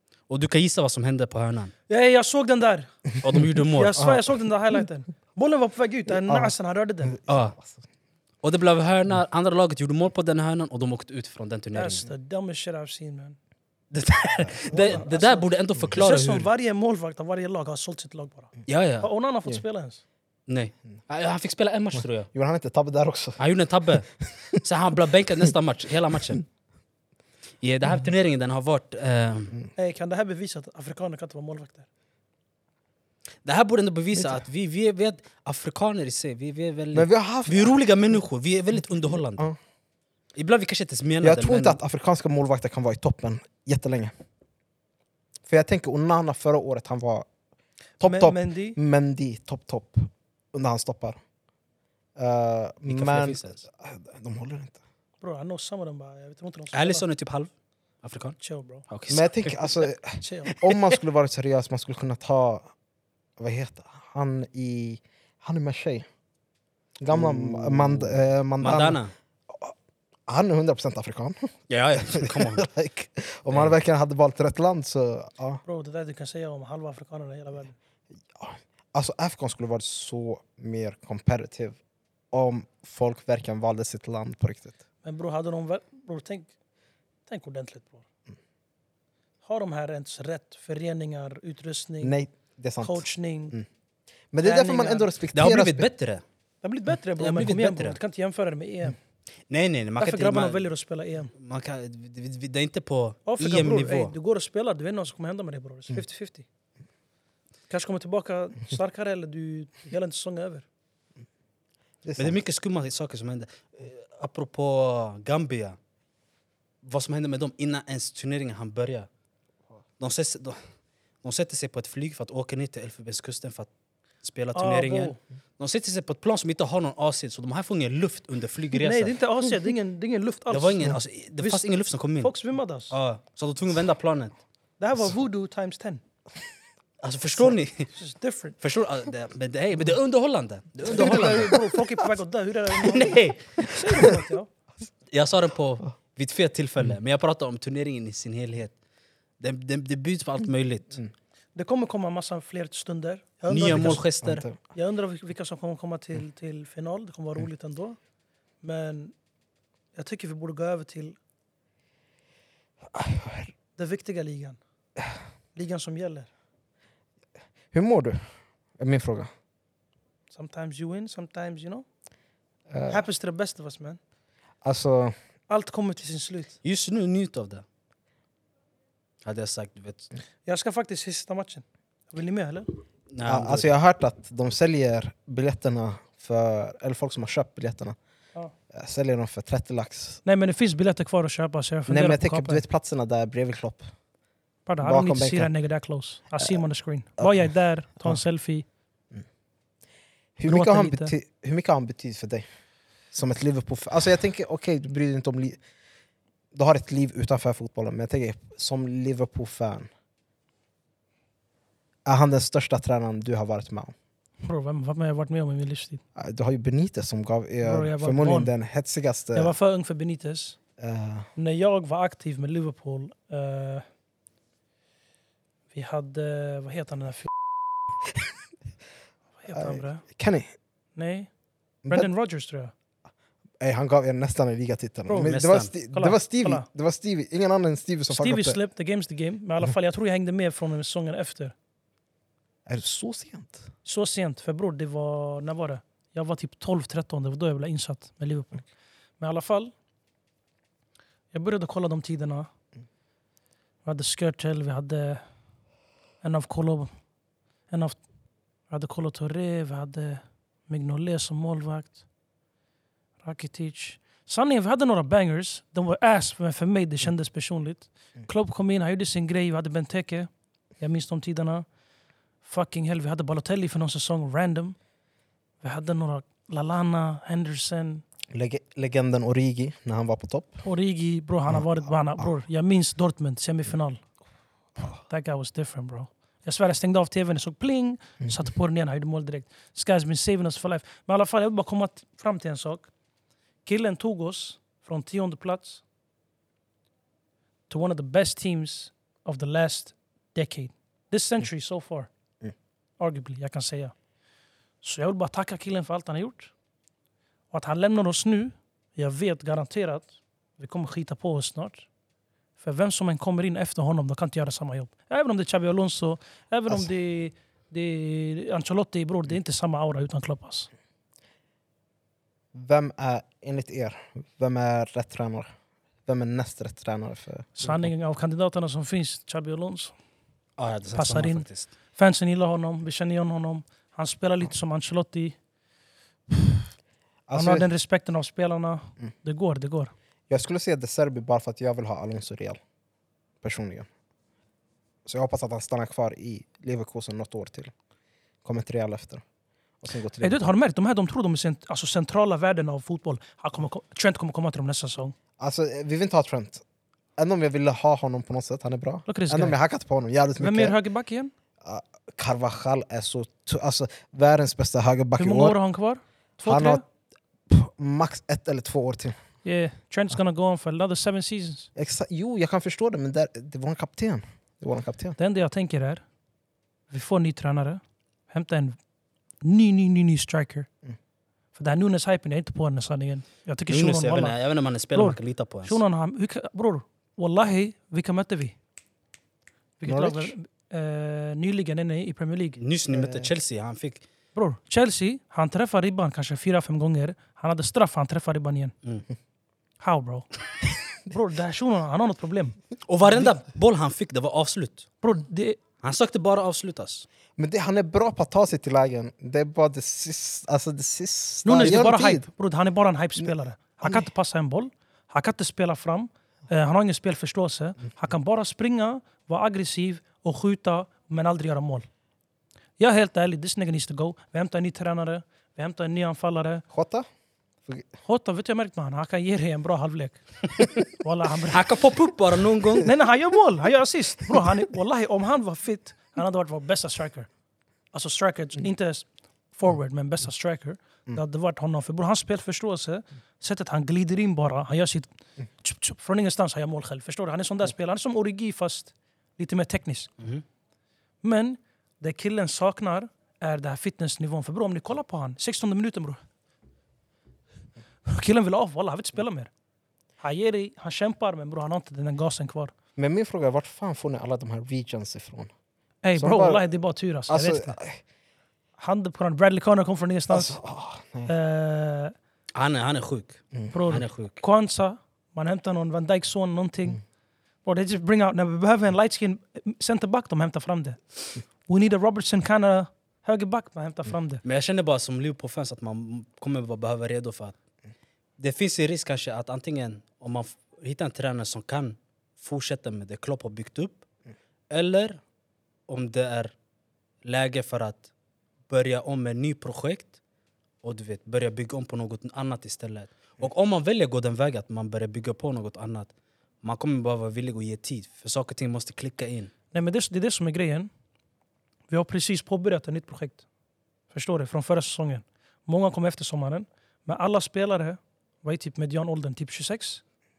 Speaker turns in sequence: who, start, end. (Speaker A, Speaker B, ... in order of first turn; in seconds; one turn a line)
Speaker A: 0.3-1.7
Speaker B: 1.9-3.0
Speaker A: 3.2-4.0
Speaker B: 3.5-7.2
Speaker C: 4.0-4.3
Speaker C: 6.3-6.5
Speaker A: 7.3-7.6
Speaker A: 8.4-12.1
Speaker B: 11.7-13.4
Speaker A: 13.9-16.5
Speaker B: 14.7-20.0
Speaker A: 18.7-19.1
Speaker A: 20.5-22.3
Speaker C: 22.3-23.4
Speaker A: 23.4-24.1
Speaker A: 24.6-26.4
Speaker A: 27.6-29.6
Speaker B: 29.8-31.9
Speaker A: 33.4-39.5
Speaker C: 36.9-37.7
Speaker A: 40.4-41.8
Speaker C: 41.2-44.1
Speaker C: 45.5-47.3
Speaker B: 48.0-48.8
Speaker C: 48.0-51.2
Speaker C: 52.2-54.8
Speaker A: 52.9-53.6
Speaker B: 55.2-57.1
Speaker A: 56.7-57.5
Speaker A: 58.0-58.4
Speaker B: 58.4-58.9
Speaker A: 58.9-59.9
Speaker C: 59.1-62.7
Speaker B: 60.2-60.6
Speaker C: 63.4-66.1
Speaker C: 67.0-69.7
Speaker A: 67.1-69.1
Speaker C: 70.3-75.6
Speaker A: 71.7-72.7
Speaker B: 75.7-77.8
Speaker C: 78.4-81.8
Speaker C: 82.3-84.8
Speaker B: 85.0-86.5
Speaker B: 87.3-88.0
Speaker B: 89.4-92.2
Speaker C: 92.0-93.7
Speaker B: 92.8-93.5
Speaker C: 94.3-95.9
Speaker B: 94.4-95.1
Speaker A: 95.3-96.2
Speaker B: 96.6-99.0
Speaker A: 97.2-98.0
Speaker A: 99.5-100.7
Speaker B: 100.0-101.3
Speaker A: 101.3-104.1
Speaker B: 103.3-106.5
Speaker B: 107.7-110.7
Speaker C: 112.0-112.4
Speaker A: 112.2-115.8
Speaker A: 116.8-119.1
Speaker A: 120.0-120.6
Speaker A: 121.2-123.7
Speaker A: 124.2-129.2
Speaker B: 124.5-125.2
Speaker B: 128.8-131.6
Speaker A: 130.5-132.3
Speaker B: 132.2-132.9
Speaker A: 132.9-134.4
Speaker B: 134.8-136.0
Speaker A: 137.0-137.9
Speaker B: 137.9-138.6
Speaker A: 138.6-141.6
Speaker B: 140.9-144.5
Speaker C: 141.0-141.6
Speaker A: 142.8-143.7
Speaker A: 145.1-148.8
Speaker A: 149.4-151.0
Speaker B: 151.6-154.0
Speaker A: 153.5-154.4
Speaker C: 153.8-154.6
Speaker B: 154.7-158.0
Speaker B: 158.6-159.1
Speaker B: 159.9-161.2
Speaker C: 162.9-163.5
Speaker B: 163.8-164.6
Speaker B: 165.6-166.3
Speaker C: 167.7-168.3
Speaker C: 168.8-169.3
Speaker B: 170.3-171.8
Speaker C: 172.7-173.1
Speaker B: 172.9-174.0
Speaker C: 174.6-175.2
Speaker B: 175.5-176.6
Speaker A: 176.6-177.7
Speaker A: 179.2-180.1
Speaker B: 180.5-182.7
Speaker A: 183.1-183.7
Speaker C: 183.2-188.0
Speaker C: 188.7-190.2
Speaker B: 190.2-192.6
Speaker C: 191.9-193.9
Speaker B: 194.7-198.7
Speaker C: 194.8-195.5
Speaker C: 200.4-202.4
Speaker B: 200.5-201.1
Speaker C: 203.1-205.6
Speaker C: 206.5-209.9
Speaker C: 212.1-213.9
Speaker B: 214.4-216.0
Speaker C: 216.2-219.5
Speaker B: 217.6-218.5
Speaker B: 219.3-220.6
Speaker C: 220.8-221.3
Speaker B: 221.4-223.9
Speaker B: 225.7-227.3
Speaker B: 229.4-230.1
Speaker C: 229.5-230.5
Speaker B: 231.0-231.3
Speaker B: 231.9-232.7
Speaker C: 233.6-238.6
Speaker B: 235.1-235.4
Speaker A: 235.3-235.7
Speaker B: 235.9-236.7
Speaker B: 238.1-241.5
Speaker C: 242.7-243.7
Speaker B: 243.8-248.7
Speaker B: 249.2-249.7
Speaker B: 251.3-252.5
Speaker B: 253.8-255.2
Speaker B: 256.2-256.9
Speaker B: 257.7-258.0
Speaker B: 258.7-262.0
Speaker B: 263.2-271.6
Speaker B: 272.4-274.8
Speaker B: 275.6-278.0
Speaker C: 278.3-280.6
Speaker B: 280.6-284.0
Speaker B: 284.8-292.9
Speaker B: 293.7-295.8
Speaker B: 297.7-302.1
Speaker B: 303.0-303.9
Speaker B: 304.8-306.5
Speaker B: 307.5-311.9
Speaker B: 312.6-320.7
Speaker C: 322.5-325.5
Speaker C: 326.1-327.9
Speaker B: 327.6-329.9
Speaker A: 330.6-331.7
Speaker B: 330.9-335.4
Speaker C: 337.3-337.7
Speaker B: 337.4-339.9
Speaker C: 340.3-342.6
Speaker C: 343.4-343.9
Speaker C: 345.1-347.7
Speaker C: 348.4-349.2
Speaker C: 349.8-350.5
Speaker B: 350.2-355.2
Speaker C: 355.4-356.6
Speaker C: 357.2-360.8
Speaker B: 359.1-359.6
Speaker B: 360.4-361.3
Speaker C: 361.6-365.6
Speaker B: 365.2-366.8
Speaker C: 366.5-366.8
Speaker C: 367.5-369.2
Speaker B: 369.4-371.7
Speaker C: 371.8-375.2
Speaker B: 375.2-376.0
Speaker B: 376.9-378.8
Speaker B: 379.4-380.7
Speaker B: 381.6-384.4
Speaker A: 383.7-385.8
Speaker B: 384.9-388.6
Speaker B: 389.8-392.6
Speaker C: 389.9-390.3
Speaker A: 392.6-394.0
Speaker C: 392.9-393.3
Speaker B: 394.4-398.7
Speaker B: 399.8-400.3
Speaker B: 401.0-402.6
Speaker A: 402.9-404.9
Speaker B: 405.0-405.6
Speaker A: 405.8-407.1
Speaker C: 407.4-412.3
Speaker B: 411.4-421.9
Speaker B: 422.8-426.7
Speaker C: 426.7-427.1
Speaker B: 428.1-431.7
Speaker A: 431.5-432.9
Speaker B: 432.8-437.3
Speaker B: 437.9-450.1
Speaker B: 451.2-456.2
Speaker B: 458.1-459.5
Speaker B: 460.2-462.7
Speaker C: 463.0-465.5
Speaker B: 466.0-467.8
Speaker C: 466.2-466.6
Speaker C: 467.3-468.0
Speaker B: 468.8-470.6
Speaker C: 470.3-471.3
Speaker B: 471.3-472.1
Speaker A: 472.6-474.4
Speaker B: 473.7-477.0
Speaker B: 477.6-484.4
Speaker A: 484.4-487.6
Speaker A: 488.4-494.0
Speaker A: 494.7-495.2
Speaker A: 495.9-496.5
Speaker A: 497.2-498.1
Speaker A: 498.7-500.2
Speaker A: 500.8-506.1
Speaker A: 506.6-509.5
Speaker B: 509.7-510.9
Speaker B: 511.9-513.4
Speaker B: 514.1-520.0